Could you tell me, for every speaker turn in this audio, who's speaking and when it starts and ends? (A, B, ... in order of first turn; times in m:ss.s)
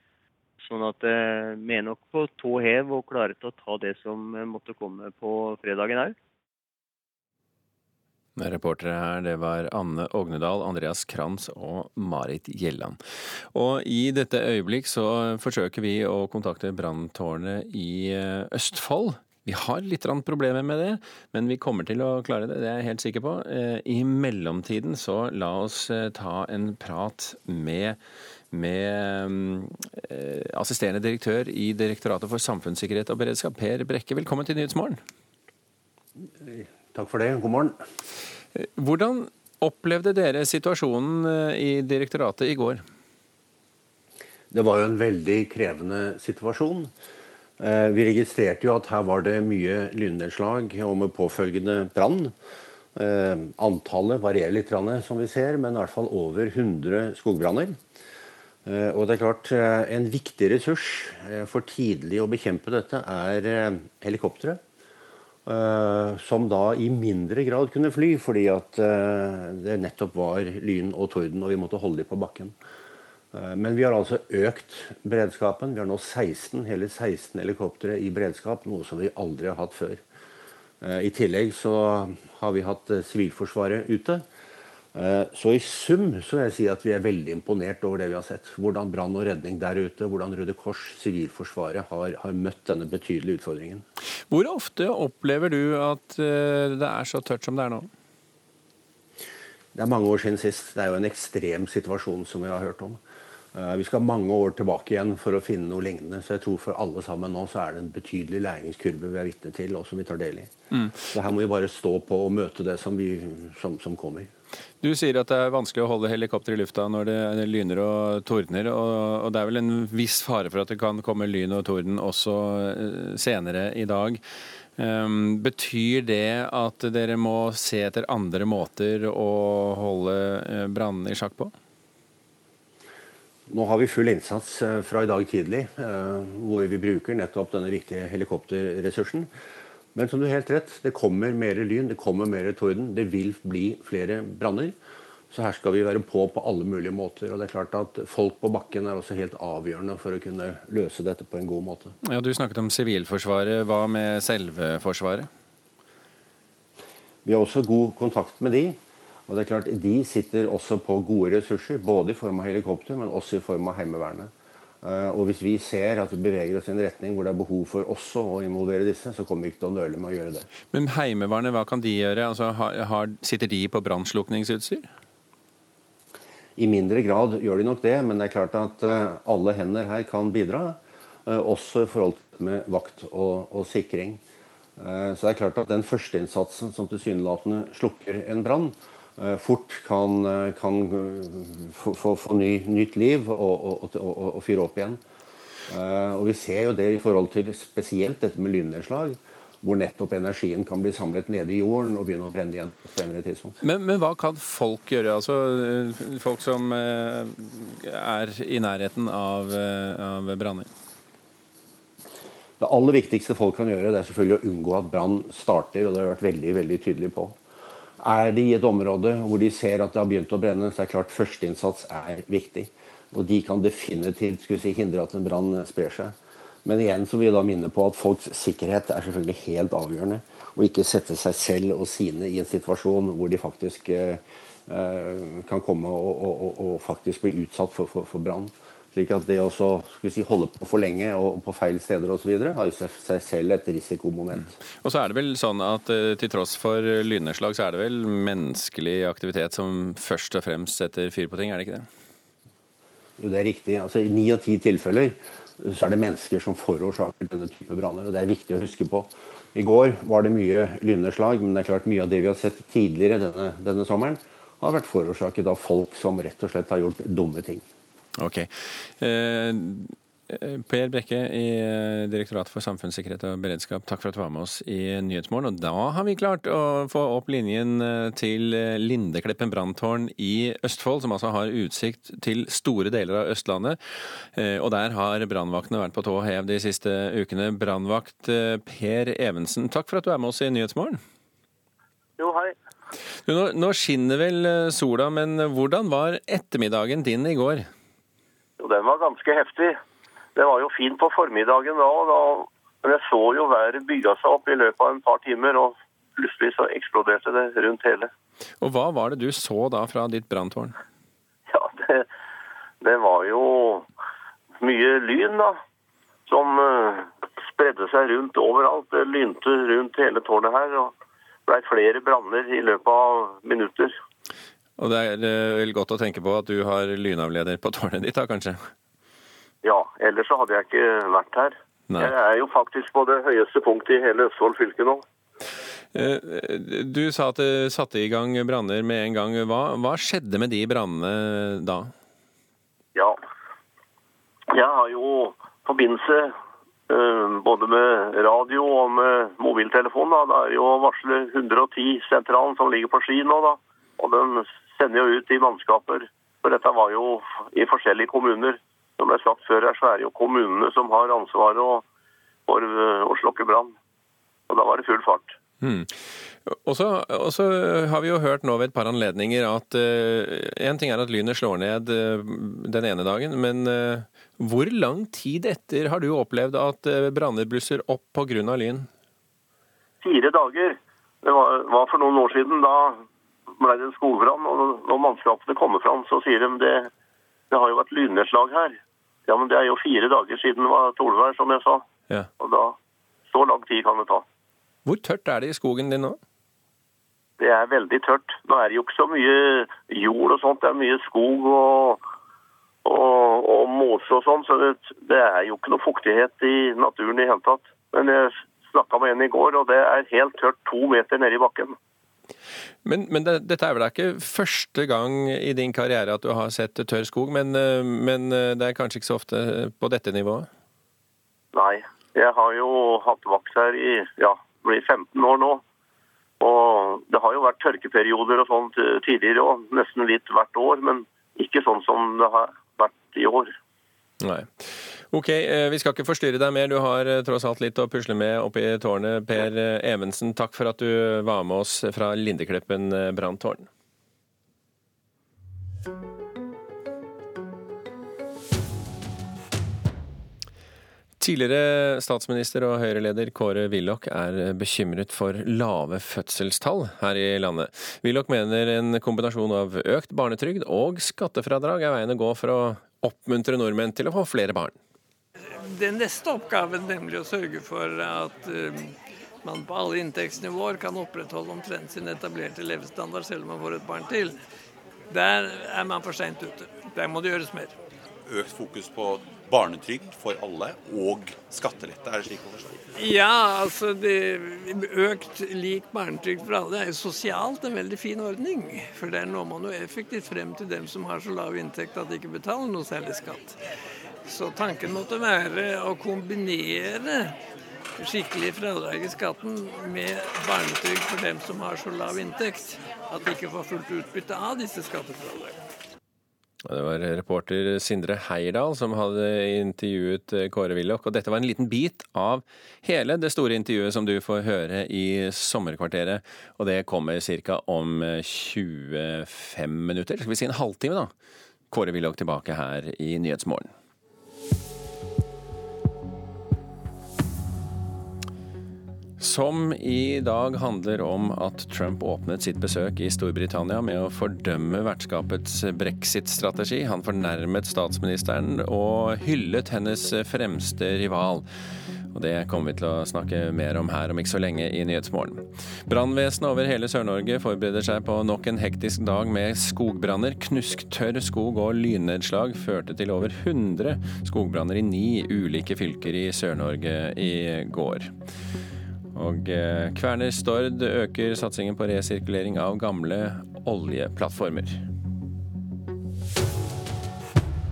0:00.6-0:06.1 A
0:08.4-0:13.0 B
0:13.5-0:28.0 B
0:28.5-0:35.0 B
0:36.2-0:37.8 C
0:38.5-0:42.8 B
0:44.5-0:46.9 C
0:47.6-0:52.3 C
0:53.0-0:57.8 C
0:58.6-1:04.6 C
1:05.4-1:12.6 C
1:13.3-1:20.0 C
1:20.8-1:24.2 C
1:24.9-1:33.8 C
1:34.3-1:37.9 B
1:39.7-1:43.0 C
1:43.5-1:50.5 C
1:51.1-1:54.3 C
1:54.8-2:04.2 B
2:04.8-2:11.5 B
2:13.5-2:19.3 C
2:19.9-2:24.8 C
2:25.3-2:31.9 C
2:32.0-2:35.3 B
2:37.2-2:50.5 C
2:50.7-2:54.9 B
2:56.6-3:04.2 C
3:04.8-3:15.0 C
3:15.7-3:23.6 C
3:23.6-3:30.7 B
3:32.6-3:37.4 C
3:38.0-4:04.5 C
4:04.8-4:11.9 B
4:13.2-4:27.6 C
4:28.2-4:43.8 B
4:44.3-4:51.0 B
4:52.2-4:52.5 D
4:53.2-4:57.7 B
4:58.6-4:59.8 D
5:00.4-5:08.1 D
5:08.6-5:10.8 B
5:11.5-5:12.0 D
5:12.8-5:13.9 D
5:14.6-5:15.6 D
5:16.3-5:20.9 D
5:21.5-5:23.9 D
5:24.8-5:28.7 B
5:29.6-5:35.0 D
5:31.9-5:32.1 B
5:35.9-5:41.9 B
5:44.5-5:46.3 D
5:46.9-6:01.8 D
6:02.5-6:03.7 D
6:04.5-6:05.3 D
6:05.6-6:05.9 B
6:06.4-6:18.9 B
6:20.0-6:23.0 D
6:23.6-6:26.9 D
6:27.5-6:31.8 D
6:32.4-6:32.7 D
6:33.3-6:34.2 D
6:34.8-6:36.2 B
6:37.4-6:42.0 D
6:42.8-6:51.7 D
6:52.8-7:00.5 B
7:01.5-7:05.6 D
7:06.4-7:13.5 D
7:14.2-7:23.7 B
7:31.2-7:44.8 B
7:45.4-7:54.4 E
7:55.1-7:57.7 E
7:58.2-8:02.8 F
8:03.0-8:13.6 E
8:14.2-8:17.4 E
8:18.0-8:25.6 E
8:26.6-8:41.1 B
8:41.7-8:43.7 B
8:49.2-9:01.4 B
9:02.1-9:18.1 B
9:19.1-9:24.8 B